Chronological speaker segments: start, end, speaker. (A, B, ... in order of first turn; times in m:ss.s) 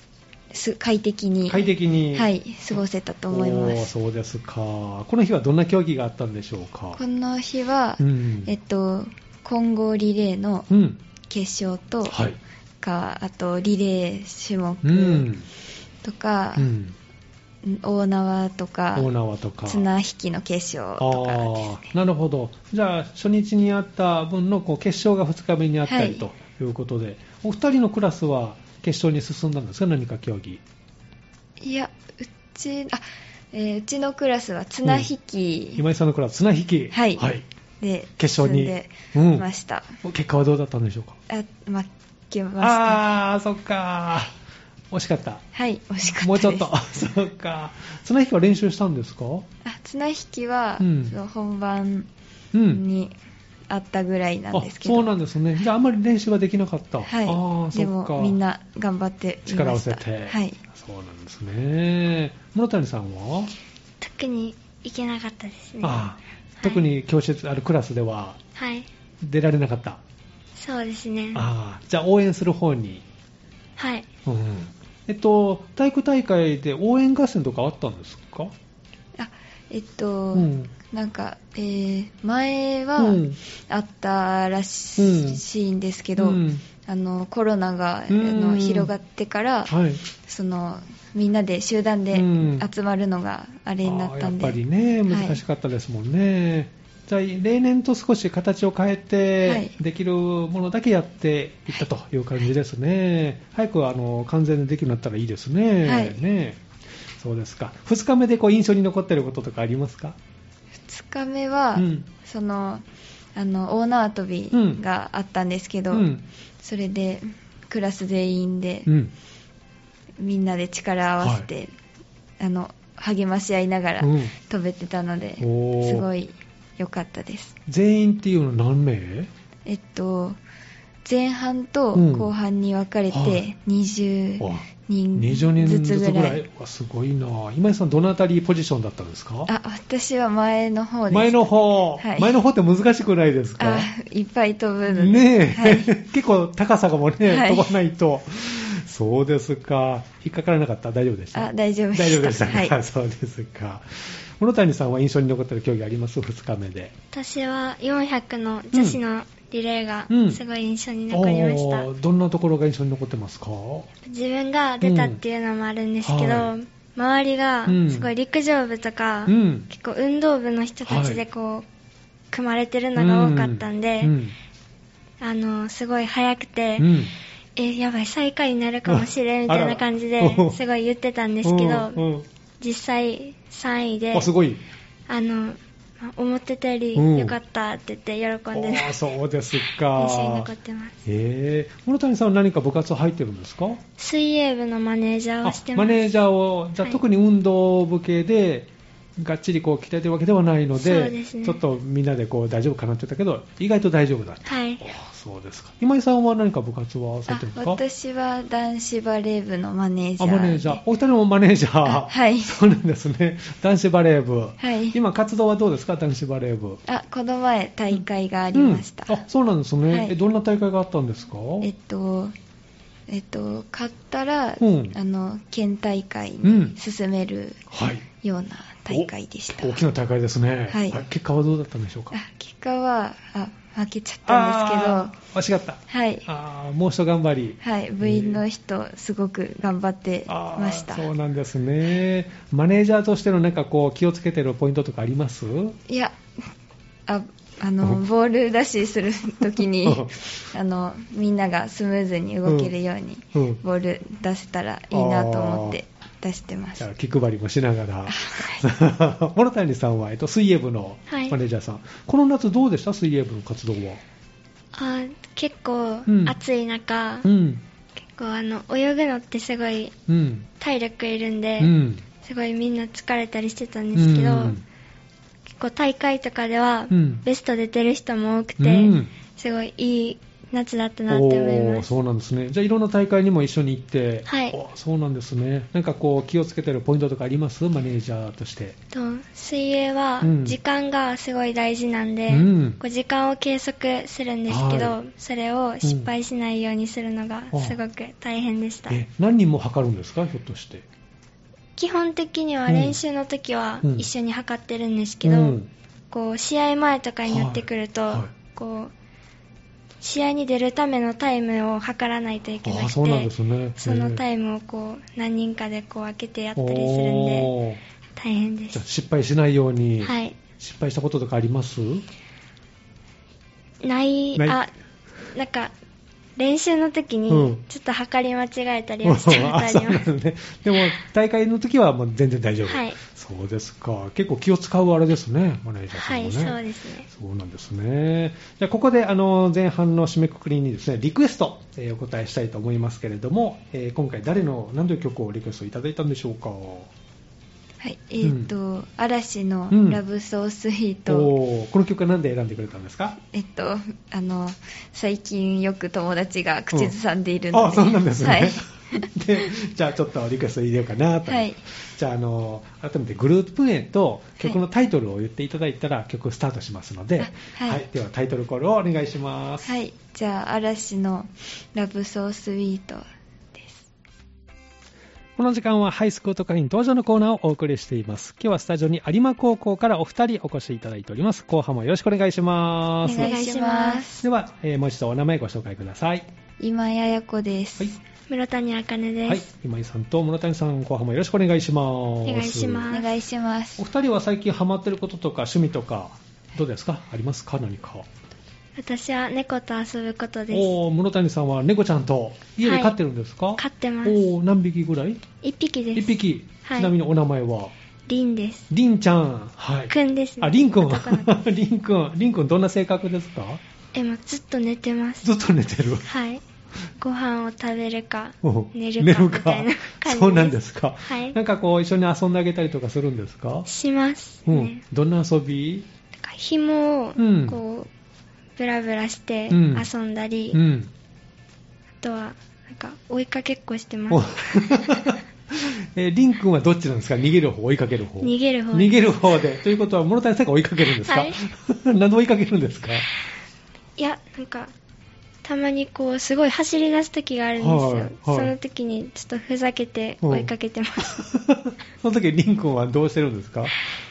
0:00.5-0:03.9 A
0:01.5-0:07.0 B
0:07.0-0:10.7 A
0:08.0-0:08.5 B
0:10.7-0:11.0 B
0:11.3-0:12.2 A
0:12.1-0:12.4 B
0:12.8-0:15.3 A
0:14.8-0:15.5 B
0:16.0-0:16.7 A
0:16.6-0:17.0 B
0:17.6-0:19.1 A
0:19.0-0:19.9 B
0:19.6-0:21.9 A
0:21.0-0:30.6 B
0:25.9-0:26.3 A
0:31.6-0:35.8 A
0:35.8-0:37.4 B
0:36.9-0:37.2 A
0:37.8-0:40.0 A
0:38.2-0:39.5 B
0:40.0-0:41.2 B
0:41.3-0:43.0 A
0:42.6-0:44.3 B
0:44.9-0:45.4 B
0:45.5-0:46.7 A
0:46.2-0:49.5 B
0:49.6-0:52.1 A
0:50.8-0:51.1 B
0:52.5-0:52.8 B
0:52.7-0:53.2 A
0:53.7-0:55.1 A
0:54.5-0:58.4 B
0:57.1-1:00.6 A
0:59.5-1:03.5 B
1:04.0-1:06.1 C
1:05.8-1:08.4 B
1:08.6-1:08.9 C
1:09.2-1:10.0 B
1:10.6-1:11.5 C
1:11.3-1:13.0 B
1:13.8-1:14.1 C
1:14.3-1:18.5 B
1:19.2-1:35.4 A
1:20.3-1:20.7 B
1:23.0-1:23.4 B
1:25.0-1:25.4 B
1:26.2-1:26.6 B
1:28.1-1:28.9 B
1:29.7-1:30.0 B
1:32.1-1:32.7 B
1:33.8-1:46.6 B
1:39.4-1:39.8 A
1:45.8-1:46.2 A
1:47.2-1:50.2 B
1:50.8-1:56.1 A
1:51.8-1:52.1 B
1:54.5-1:54.8 B
1:55.9-1:56.2 B
1:56.6-1:58.9 A
1:58.9-1:59.1 B
2:00.2-2:01.7 A
2:01.2-2:01.5 B
2:02.4-2:07.6 A
2:04.0-2:04.3 B
2:05.4-2:06.1 B
2:07.7-2:09.3 B
2:09.7-2:10.4 A
2:11.0-2:16.4 A
2:11.9-2:12.3 B
2:13.1-2:13.4 B
2:14.4-2:19.5 B
2:19.5-2:22.4 A
2:21.1-2:23.9 B
2:23.6-2:25.9 A
2:24.9-2:36.9 B
2:27.3-2:27.7 A
2:31.3-2:32.8 A
2:37.1-2:41.9 C
2:38.7-2:39.0 B
2:40.1-2:40.4 B
2:41.1-2:43.9 B
2:44.0-2:51.7 C
2:44.8-2:45.2 B
2:46.0-2:46.5 B
2:47.7-2:48.1 B
2:49.3-2:49.7 B
2:50.8-2:51.2 B
2:52.3-2:54.2 C
2:53.0-2:54.4 B
2:55.2-2:56.9 C
2:56.8-2:57.1 B
2:57.6-3:02.0 C
2:58.9-3:00.6 B
3:01.4-3:02.3 B
3:02.6-3:04.3 C
3:04.1-3:04.6 B
3:05.1-3:09.0 C
3:07.0-3:07.4 B
3:08.5-3:10.5 B
3:10.0-3:11.0 C
3:11.0-3:13.8 B
3:14.0-3:16.2 C
3:15.4-3:27.8 B
3:20.8-3:21.6 C
3:24.5-3:24.8 C
3:27.3-3:30.8 A
3:30.2-3:36.8 B
3:31.9-3:32.6 A
3:34.6-3:35.0 A
3:36.9-3:39.2 A
3:38.5-3:41.7 B
3:39.9-3:40.2 A
3:41.6-3:42.3 A
3:43.1-3:47.6 A
3:44.6-3:45.0 B
3:46.4-3:46.8 B
3:47.7-3:48.0 B
3:48.2-3:49.8 A
3:48.9-3:52.2 B
3:50.7-3:51.0 A
3:52.1-3:55.2 A
3:54.3-3:58.4 B
3:55.9-3:56.3 A
3:57.6-4:01.1 A
4:00.3-4:05.8 B
4:05.9-4:06.2 A
4:07.1-4:16.9 A
4:09.8-4:10.2 B
4:12.4-4:12.7 B
4:13.3-4:13.6 B
4:14.9-4:15.8 B
4:16.8-4:24.0 B
4:18.1-4:18.7 A
4:21.1-4:21.4 C
4:24.7-4:27.3 C
4:26.1-4:26.4 B
4:27.2-4:27.6 B
4:28.1-4:30.0 C
4:30.1-4:30.5 B
4:30.6-4:34.6 C
4:31.6-4:32.0 B
4:33.9-4:34.6 B
4:35.6-4:41.9 C
4:36.9-4:37.2 B
4:38.6-4:39.1 B
4:41.1-4:48.8 B
4:44.3-4:44.6 C
4:48.9-4:59.0 C
4:50.2-4:50.6 B
4:52.3-4:52.8 B
4:54.5-4:55.0 B
4:55.8-4:56.1 B
4:57.5-4:57.8 B
4:58.9-5:00.9 B
5:01.8-5:05.6 C
5:02.7-5:03.0 B
5:03.8-5:04.1 B
5:05.2-5:05.7 B
5:06.1-5:08.9 C
5:07.3-5:08.3 B
5:10.0-5:17.5 C
5:12.6-5:14.2 B
5:16.6-5:17.8 B
5:18.2-5:18.8 C
5:18.7-5:22.0 B
5:20.0-5:20.4 C
5:23.8-5:24.7 C
5:25.3-5:25.7 C
5:26.4-5:30.1 C
5:27.3-5:27.6 B
5:29.0-5:46.9 B
5:32.7-5:33.0 C
5:35.9-5:37.1 C
5:47.8-5:51.3 A
5:48.2-5:48.5 B
5:49.7-5:50.0 B
5:51.1-5:53.2 B
5:53.3-5:59.0 A
5:57.5-6:09.8 B
6:01.3-6:01.6 A
6:07.2-6:07.8 A
6:09.6-6:13.9 A
6:15.4-6:23.3 B
6:23.0-6:24.3 A
6:23.1-6:24.1 C
6:24.2-6:26.3 B
6:26.6-6:28.0 A
6:28.3-6:29.5 C
6:29.3-6:33.0 B
6:32.3-6:33.1 C
6:32.9-6:33.8 A
6:33.8-6:38.1 B
6:38.8-6:40.7 C
6:40.5-6:45.2 B
6:42.6-6:43.0 C
6:43.6-6:44.3 C
6:45.4-6:46.9 C
6:46.0-6:47.7 B
6:48.1-6:48.7 C
6:48.7-6:53.6 B
6:49.9-6:51.3 C
6:53.9-6:55.3 C
6:55.2-6:56.1 B
6:56.1-6:56.4 C
6:57.0-7:01.4 C
6:58.4-7:03.7 B
7:03.7-7:04.8 C
7:04.5-7:05.9 B
7:06.2-7:07.9 C
7:07.2-7:07.6 B
7:08.6-7:10.6 C
7:09.5-7:09.9 B
7:10.5-7:10.9 B
7:12.0-7:15.1 C
7:14.1-7:23.1 B
7:18.2-7:19.1 C
7:21.0-7:21.4 C
7:24.0-7:24.7 C
7:25.4-7:31.2 C
7:27.6-7:28.5 B
7:30.2-7:30.5 B
7:31.1-7:33.8 B